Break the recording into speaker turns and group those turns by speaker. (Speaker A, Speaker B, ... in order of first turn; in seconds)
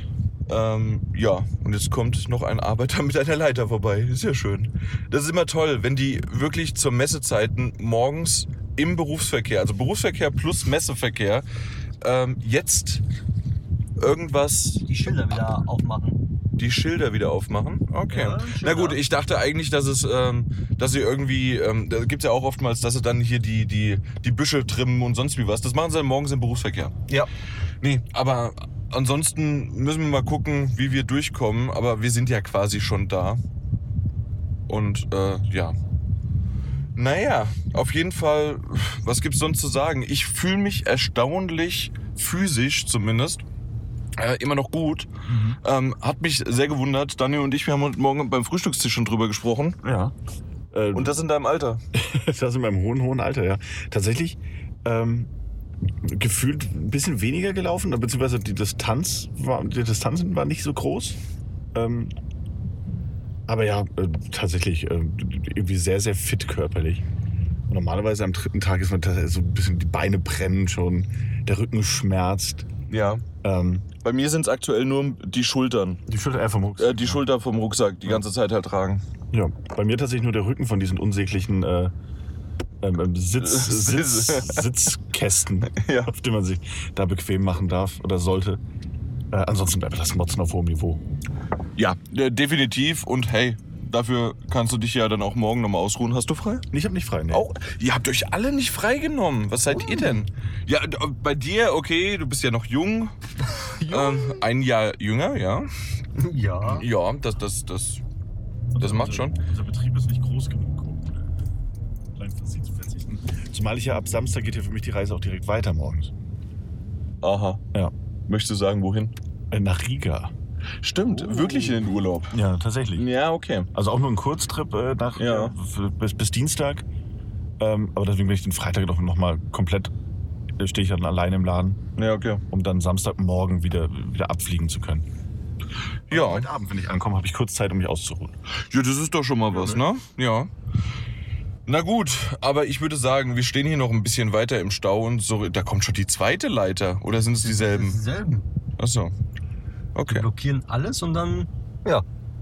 Speaker A: 0.5-11.4, 12.0-13.0, 14.0-14.8, 16.6-26.9, 27.8-33.4, 34.7-35.7, 37.0-43.4, 44.2-45.1, 45.6-49.8, 50.9-51.8, 72.9-73.2, 74.0-76.0, 76.8-79.0, 83.4-84.7, 85.7-86.1, 91.8-96.6, 97.3-105.7, 106.6-108.0, 108.8-109.4, 117.2-117.6, 118.3-119.1, 120.8-122.4, 123.0-123.7, 125.2-125.5, 131.9-132.4, 136.1-136.5, 138.7-140.5, 141.7-148.0, 148.8-149.1, 149.9-150.2
Speaker B: 14.8-16.2, 18.1-19.0, 99.8-100.2, 103.6-104.4, 106.2-106.9, 147.4-148.5, 150.1-152.0
Speaker C: 45.3-45.6, 49.8-50.1, 50.7-51.2, 51.9-55.3, 56.0-61.2, 61.7-62.1, 63.5-67.0, 67.7-72.7, 73.4-73.9, 76.1-77.2, 79.3-81.9, 82.8-88.6, 89.3-91.0, 96.7-97.4, 108.7-111.2, 112.2-116.1, 119.5-120.3, 121.0-123.0, 123.7-126.8, 127.6-129.9, 130.6-131.8, 132.5-135.1, 136.1-138.3, 139.5-139.8